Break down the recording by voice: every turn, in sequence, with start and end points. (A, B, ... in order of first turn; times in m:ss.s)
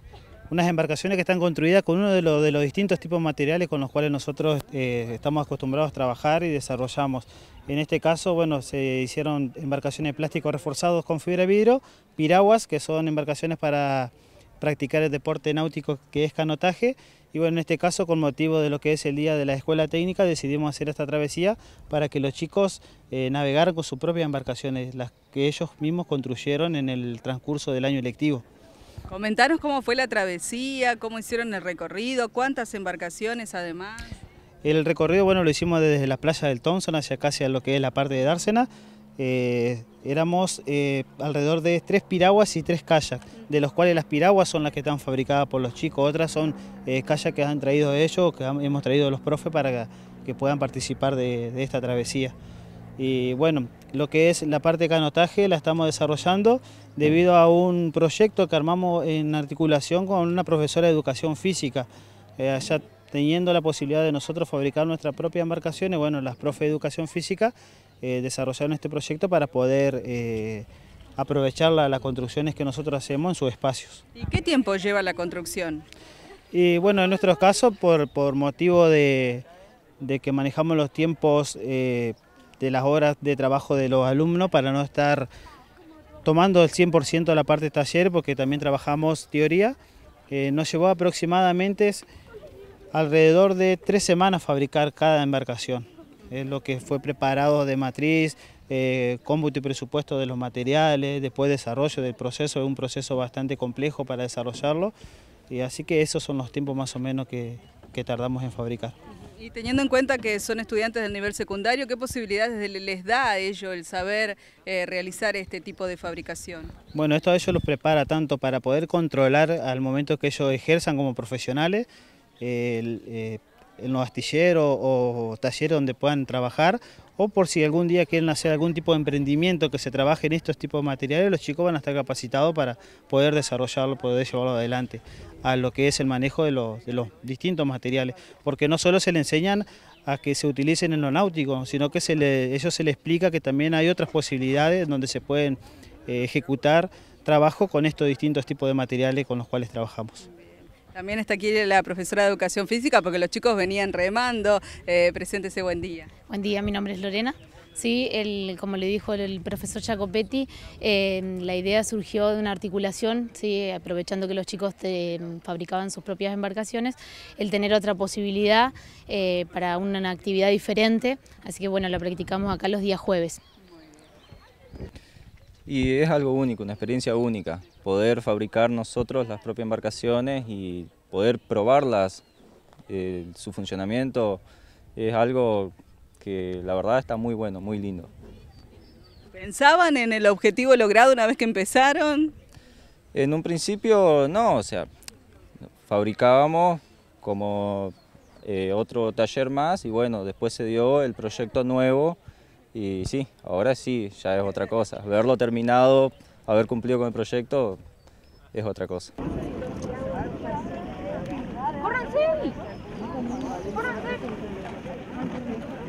0:00.5-0:28.4 A
0:29.1-0:34.2 B
0:34.6-0:52.3 A
0:53.0-1:10.7 A
1:11.2-1:14.0 A
1:14.1-1:15.8 B
1:16.5-1:19.4 A
1:20.0-1:25.3 A
1:26.2-1:29.8 A
1:30.3-1:32.0 A
1:32.9-1:44.9 A
1:45.5-1:48.9 A
1:49.4-1:56.7 B
1:56.9-2:01.9 A
2:02.4-2:30.2 A
2:30.4-2:36.1 B
2:36.3-2:53.4 C
2:55.6-3:02.2 D
3:02.9-3:04.4 D
3:05.0-3:08.1 D
3:09.3-3:12.3 B
3:13.1-3:14.9 D
3:15.8-3:22.2 D
3:22.7-3:27.8 D
3:28.5-3:29.1 D